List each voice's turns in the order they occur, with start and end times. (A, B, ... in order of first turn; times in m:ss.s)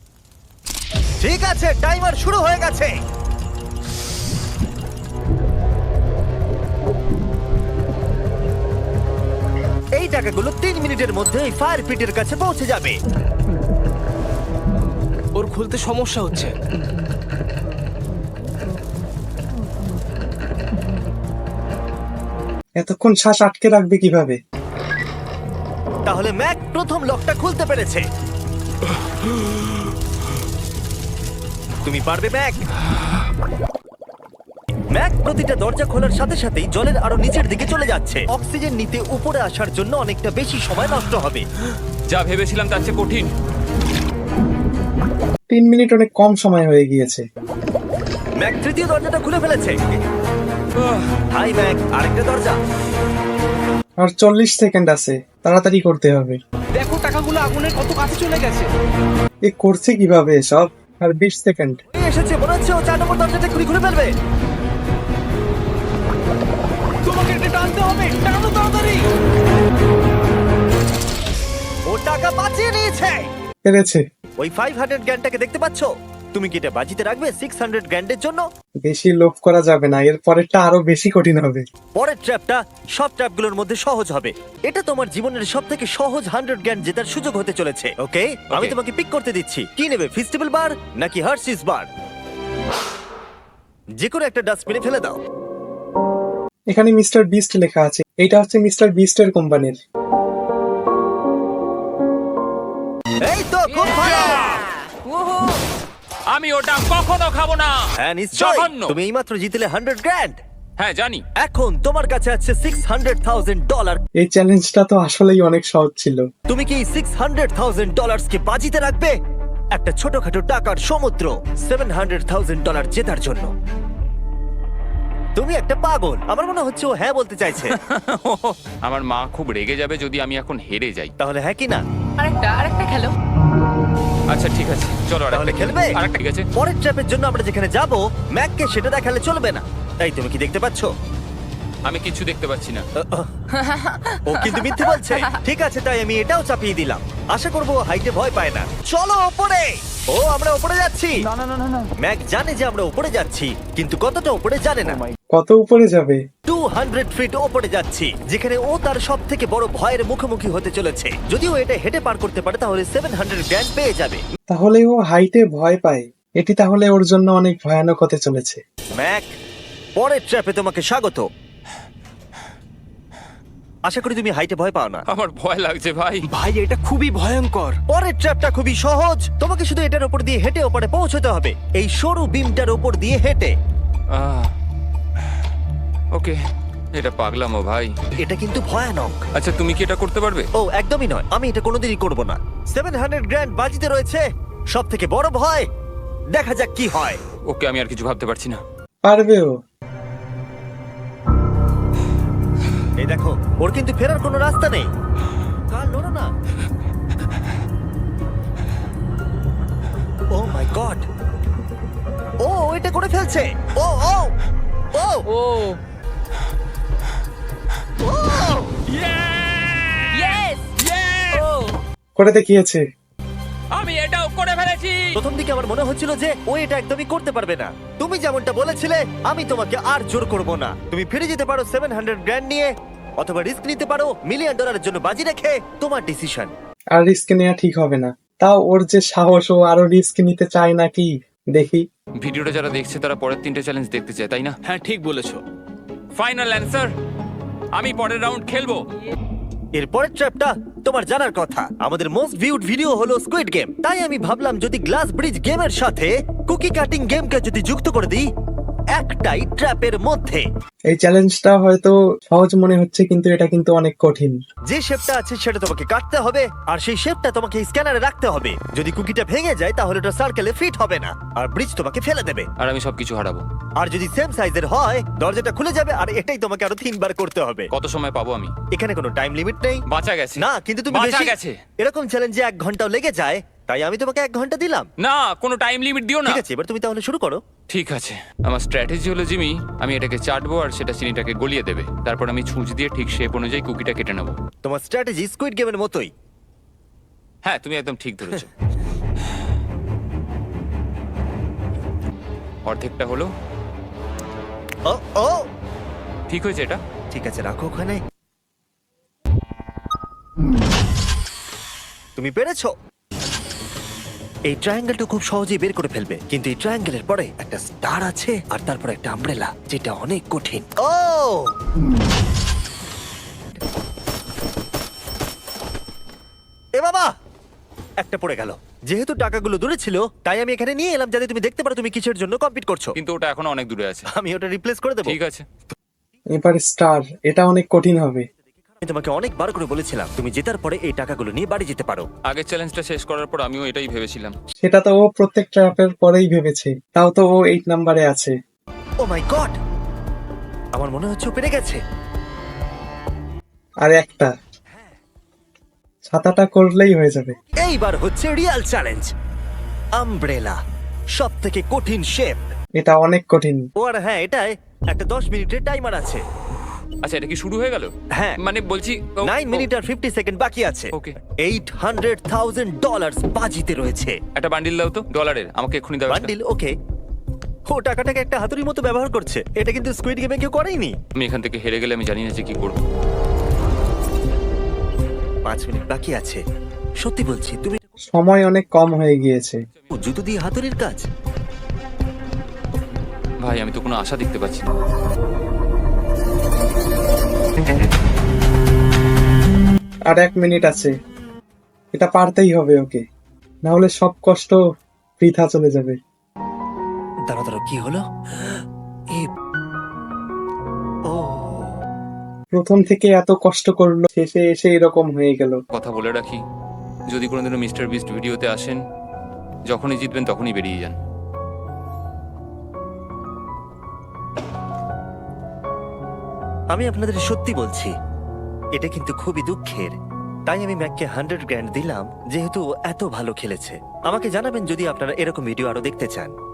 0:01.2-0:03.0 A
0:10.0-0:13.0 A
0:15.3-0:16.5 B
0:22.8-0:24.4 C
0:26.0-0:28.0 A
0:31.8-0:32.6 A
0:34.9-0:41.4 A
0:42.1-0:43.3 D
0:45.5-0:47.2 C
0:48.4-0:50.0 A
0:50.8-0:51.1 D
0:51.3-0:52.6 A
0:54.0-0:56.4 C
0:56.8-0:58.7 B
0:59.4-1:01.8 C
1:01.9-1:04.1 A
1:07.0-1:09.1 B
1:11.9-1:13.2 A
1:13.6-1:14.0 C
1:14.4-1:18.4 A
1:18.8-1:21.6 C
1:21.9-1:31.9 A
1:28.5-1:28.8 D
1:34.0-1:35.2 A
1:36.7-1:39.8 C
1:43.2-1:44.5 A
1:43.8-1:44.7 D
1:44.4-1:45.6 B
1:46.3-1:48.9 D
1:48.0-1:50.4 A
1:50.8-1:51.2 D
1:51.4-1:54.0 A
1:54.2-1:56.2 C
1:56.5-1:59.1 A
1:59.7-2:03.5 A
2:05.4-2:07.8 A
2:07.7-2:11.1 D
2:11.2-2:11.8 A
2:12.2-2:13.1 B
2:14.3-2:16.5 D
2:15.3-2:16.0 A
2:16.5-2:20.9 A
2:21.8-2:22.8 D
2:23.0-2:23.3 A
2:23.6-2:24.2 B
2:24.2-2:31.2 A
2:32.0-2:35.0 A
2:35.3-2:36.2 C
2:36.5-2:44.2 A
2:44.5-2:48.6 C
2:49.0-2:49.3 A
2:50.0-2:51.3 A
2:53.9-2:55.0 A
2:55.1-2:56.2 D
2:56.3-2:57.8 B
2:57.9-3:03.5 A
3:04.1-3:04.5 D
3:06.9-3:07.9 D
3:08.2-3:09.2 A
3:09.3-3:10.5 D
3:10.6-3:15.7 A
3:16.3-3:17.2 A
3:17.4-3:18.6 D
3:19.0-3:19.5 C
3:23.0-3:24.9 A
3:25.7-3:26.3 A
3:30.3-3:31.0 A
3:32.4-3:34.3 A
3:34.9-3:35.3 A
3:35.3-3:35.8 B
3:38.0-3:38.8 A
3:38.9-3:41.5 D
3:40.1-3:40.7 B
3:41.3-3:41.8 B
3:42.2-3:42.8 C
3:43.7-3:45.2 D
3:45.1-3:56.5 A
3:57.0-4:01.8 C
4:02.2-4:04.6 D
4:04.6-4:05.4 B
4:06.1-4:06.9 D
4:07.8-4:08.8 D
4:09.7-4:18.3 A
4:18.9-4:20.4 A
4:20.9-4:24.4 C
4:24.7-4:32.5 A
4:32.6-4:33.4 D
4:33.8-4:37.7 A
4:37.7-4:38.5 D
4:38.7-4:39.8 A
4:39.9-4:41.6 D
4:40.4-4:44.9 A
4:45.0-4:46.4 D
4:46.2-4:47.4 A
4:47.7-4:54.4 D
4:54.6-4:56.1 A
4:57.4-4:58.5 D
5:02.6-5:03.3 D
5:04.8-5:05.5 A
5:06.3-5:06.8 D
5:07.1-5:08.0 A
5:12.2-5:12.7 A
5:14.5-5:21.5 A
5:26.7-5:27.1 A
5:28.0-5:32.9 A
5:33.0-5:34.1 D
5:34.1-5:35.2 A
5:35.0-5:35.4 D
5:36.3-5:38.2 C
5:38.8-5:42.1 A
5:42.2-5:44.3 D
5:44.6-5:48.3 C
5:49.0-5:49.6 A
5:50.7-5:51.8 A
5:53.8-5:54.3 C
5:56.1-5:57.4 C
5:57.5-5:59.1 A
6:00.0-6:00.6 A
6:01.2-6:02.4 A
6:02.8-6:03.6 C
6:03.8-6:06.2 A
6:07.0-6:09.7 D
6:09.2-6:14.2 A
6:14.4-6:16.3 D
6:16.1-6:16.7 A
6:17.7-6:20.9 A
6:21.1-6:22.8 D
6:25.4-6:26.4 A
6:27.0-6:27.8 A
6:28.1-6:29.6 C
6:29.9-6:31.1 A
6:33.4-6:34.7 D
6:40.1-6:40.9 C
6:41.9-6:43.0 C
6:43.6-6:44.6 C
6:45.2-6:46.0 C
6:47.3-6:49.3 A
6:51.1-6:51.7 A
6:52.5-6:55.6 C
6:55.7-6:56.4 D
6:57.1-6:58.8 D
6:59.7-7:01.0 D
7:06.7-7:07.9 A
7:08.7-7:10.0 A
7:10.5-7:16.3 A